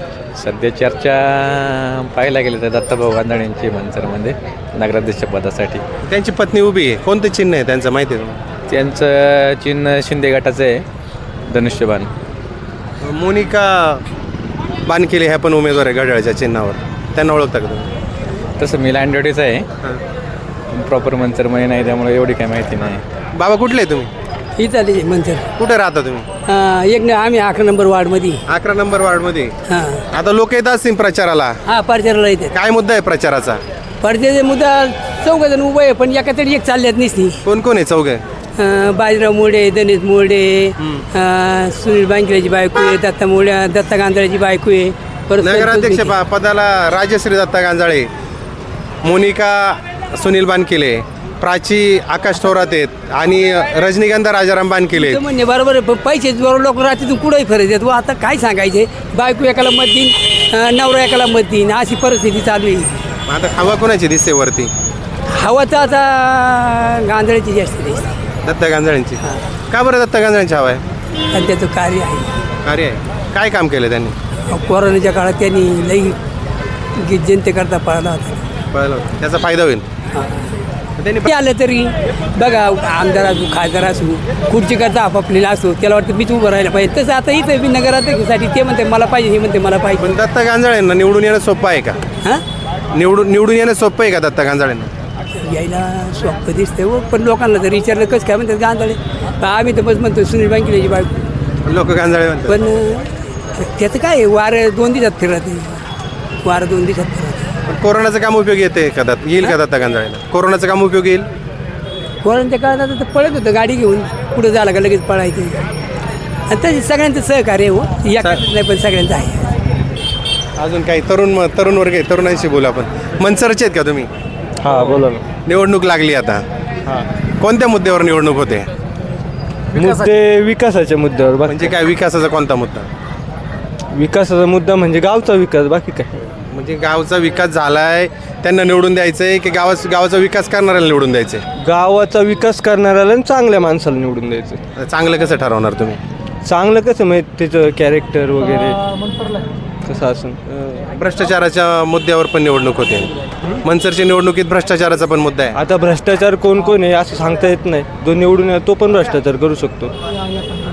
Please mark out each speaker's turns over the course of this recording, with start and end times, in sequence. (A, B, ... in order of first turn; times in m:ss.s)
0:00.4-0:05.8 A
0:06.0-0:08.4 B
0:08.7-0:10.8 A
0:11.5-0:12.1 A
0:13.0-0:14.0 B
0:14.8-0:17.9 B
0:18.6-0:19.6 A
0:20.7-0:23.0 A
0:23.3-0:24.1 B
0:24.6-0:25.5 C
0:25.6-0:26.3 B
0:26.5-0:28.4 C
0:28.5-0:29.5 B
0:29.7-0:30.0 C
0:30.1-0:31.6 B
0:31.7-0:32.5 C
0:32.5-0:33.6 B
0:34.0-0:37.4 C
0:37.4-0:38.2 B
0:38.6-0:46.1 C
0:40.8-0:41.0 B
0:45.4-0:48.1 B
0:49.0-0:55.2 B
0:54.9-1:03.0 C
1:03.3-1:04.7 B
1:05.3-1:08.1 C
1:08.4-1:10.8 B
1:11.3-1:12.3 C
1:12.6-1:14.1 B
1:14.5-1:16.2 C
1:17.0-1:18.4 C
1:18.7-1:19.8 B
1:20.1-1:20.5 C
1:21.0-1:21.3 B
1:21.2-1:30.1 C
1:30.0-1:32.0 B
1:32.9-1:34.9 B
1:35.4-1:41.2 C
1:41.6-1:42.6 B
1:42.5-1:45.8 C
1:46.4-1:47.5 C
1:47.6-1:51.3 B
1:52.2-1:55.6 C
1:56.5-1:59.5 C
2:00.6-2:04.1 B
2:04.6-2:05.2 D
2:05.4-2:06.4 B
2:07.4-2:08.7 B
2:09.7-2:11.6 D
2:11.4-2:12.9 B
2:13.9-2:16.2 D
2:16.5-2:21.4 B
2:21.6-2:24.6 D
2:24.8-2:26.0 B
2:26.4-2:28.8 D
2:29.8-2:30.4 D
2:30.6-2:33.1 B
2:33.6-2:35.6 B
2:35.5-2:39.9 D